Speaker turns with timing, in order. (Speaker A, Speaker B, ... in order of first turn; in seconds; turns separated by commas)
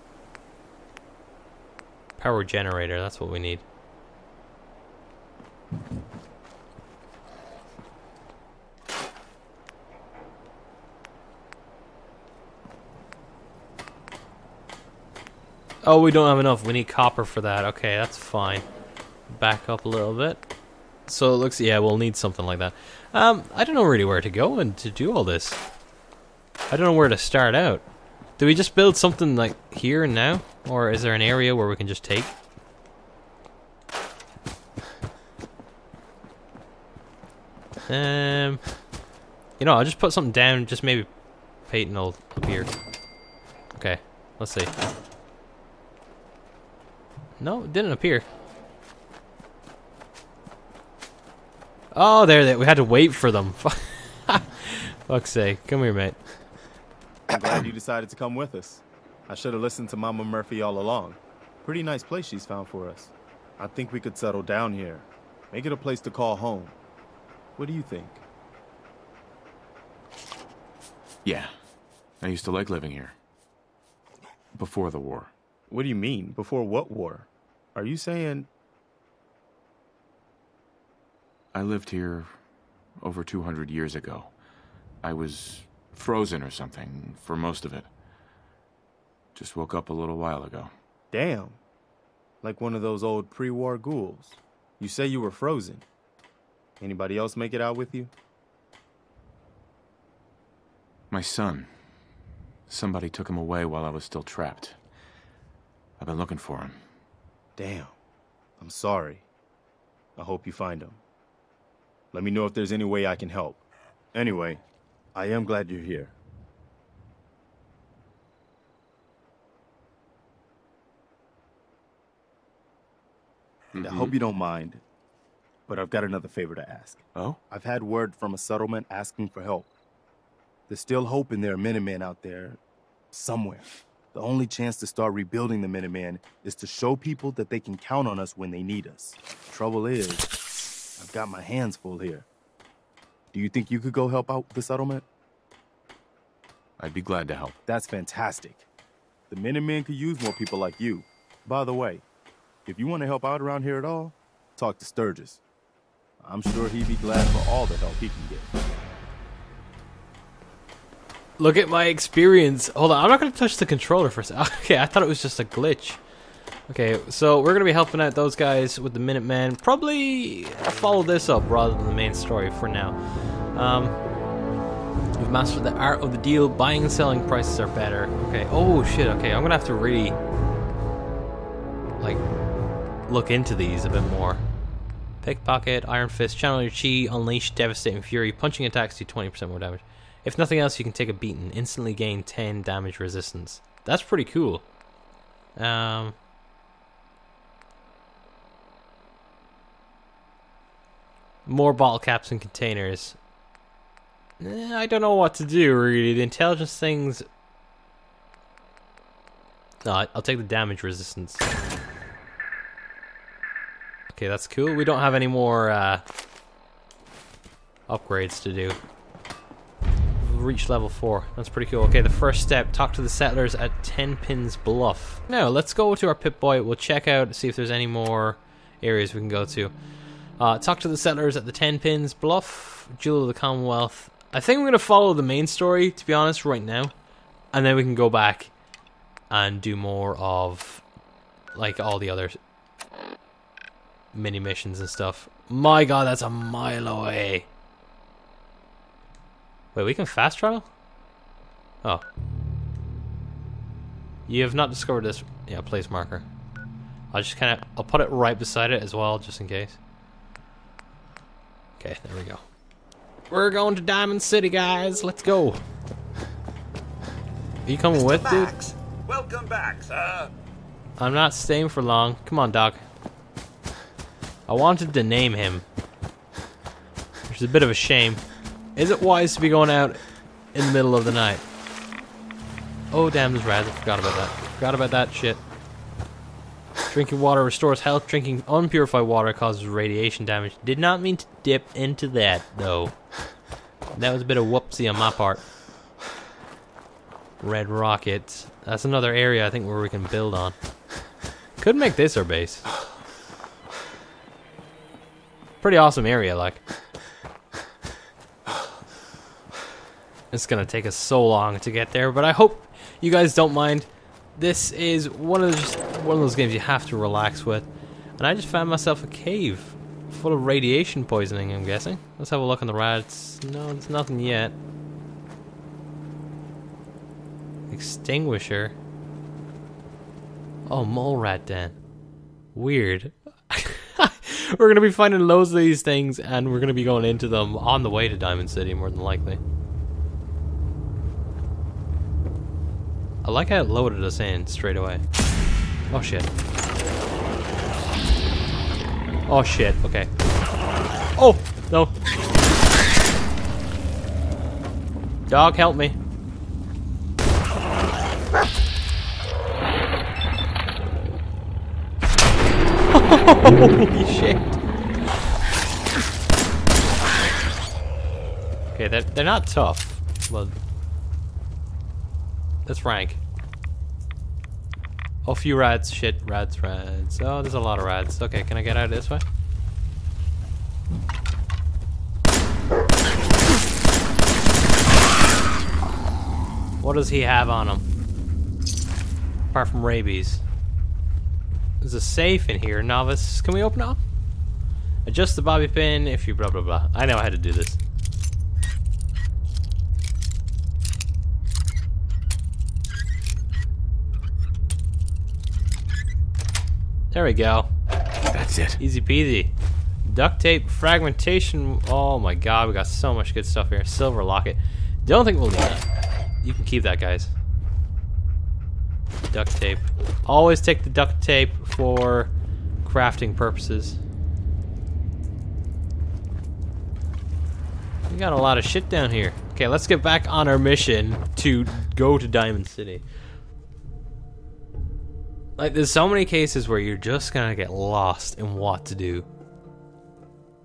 Speaker A: 2.2-3.6, Speaker A: 15.8-18.6, Speaker A: 19.3-20.4, Speaker A: 21.1-25.6, Speaker A: 26.7-27.8, Speaker A: 28.4-32.3, Speaker A: 37.9-38.6, Speaker A: 39.6-41.1, Speaker A: 41.6-42.7, Speaker A: 43.8-44.7, Speaker A: 47.4-48.2, Speaker A: 51.9-56.2, Speaker B: 57.3-66.8, Speaker B: 67.6-68.2, Speaker C: 71.2-71.5, Speaker C: 72.2-73.1, Speaker C: 74.5-75.3, Speaker B: 75.7-78.5, Speaker C: 81.5-82.3, Speaker C: 83.0-84.3, Speaker C: 85.0-87.9, Speaker C: 89.3-90.7, Speaker B: 91.1-91.6, Speaker B: 92.4-95.8, Speaker B: 96.8-98.1, Speaker C: 101.1-101.7, Speaker C: 102.7-104.8, Speaker C: 106.0-106.8, Speaker B: 107.6-107.9, Speaker B: 108.6-109.2, Speaker B: 110.2-111.0, Speaker B: 112.1-113.6, Speaker B: 114.1-114.6, Speaker B: 115.1-116.1, Speaker C: 123.7-124.1, Speaker B: 123.8-124.8, Speaker B: 125.7-129.7, Speaker C: 127.1-127.4, Speaker B: 130.7-132.6, Speaker B: 133.1-140.3, Speaker B: 141.0-142.3, Speaker B: 143.3-145.0, Speaker C: 146.8-147.6, Speaker B: 147.7-148.7, Speaker B: 149.3-152.0, Speaker B: 152.7-155.4, Speaker B: 156.2-158.5, Speaker A: 161.4-166.0, Speaker A: 166.7-174.0, Speaker A: 175.2-180.2, Speaker A: 183.1-184.4, Speaker A: 185.2-194.6, Speaker A: 195.6-196.1, Speaker A: 201.4-203.2, Speaker A: 204.4-207.2, Speaker A: 209.8-211.4, Speaker A: 214.1-216.0, Speaker A: 217.9-218.8, Speaker A: 220.2-229.7, Speaker A: 230.4-236.9, Speaker A: 237.5-238.5, Speaker A: 239.3-240.8, Speaker A: 241.5-242.4, Speaker A: 244.1-247.5, Speaker A: 249.7-250.7, Speaker A: 254.3-256.2, Speaker A: 257.1-259.8, Speaker A: 261.8-262.4, Speaker A: 263.3-265.6, Speaker A: 267.6-268.5, Speaker D: 268.0-270.3, Speaker A: 271.0-272.8, Speaker A: 274.5-275.6, Speaker A: 277.3-278.2, Speaker A: 278.8-280.0, Speaker A: 280.5-281.4, Speaker A: 282.9-285.4, Speaker A: 286.9-292.9, Speaker A: 293.9-295.4, Speaker A: 297.4-300.5, Speaker A: 301.6-302.6, Speaker A: 305.6-306.6, Speaker A: 310.3-317.7, Speaker A: 318.2-324.5, Speaker A: 327.7-328.7, Speaker A: 330.6-331.8, Speaker A: 332.5-339.4, Speaker A: 343.2-345.0, Speaker A: 345.9-346.3, Speaker A: 349.3-350.1, Speaker A: 351.1-351.9, Speaker A: 355.3-356.0, Speaker A: 362.9-364.6, Speaker A: 368.7-370.5, Speaker A: 372.6-373.2, Speaker A: 375.2-379.2, Speaker A: 386.8-387.8, Speaker A: 389.5-390.4, Speaker A: 391.8-394.0, Speaker A: 395.0-397.8, Speaker A: 407.1-407.7, Speaker C: 408.3-408.8, Speaker A: 408.8-409.5, Speaker A: 410.0-415.9, Speaker A: 416.4-417.3, Speaker A: 419.3-422.3, Speaker A: 422.8-424.0, Speaker A: 428.1-433.0, Speaker A: 435.6-439.2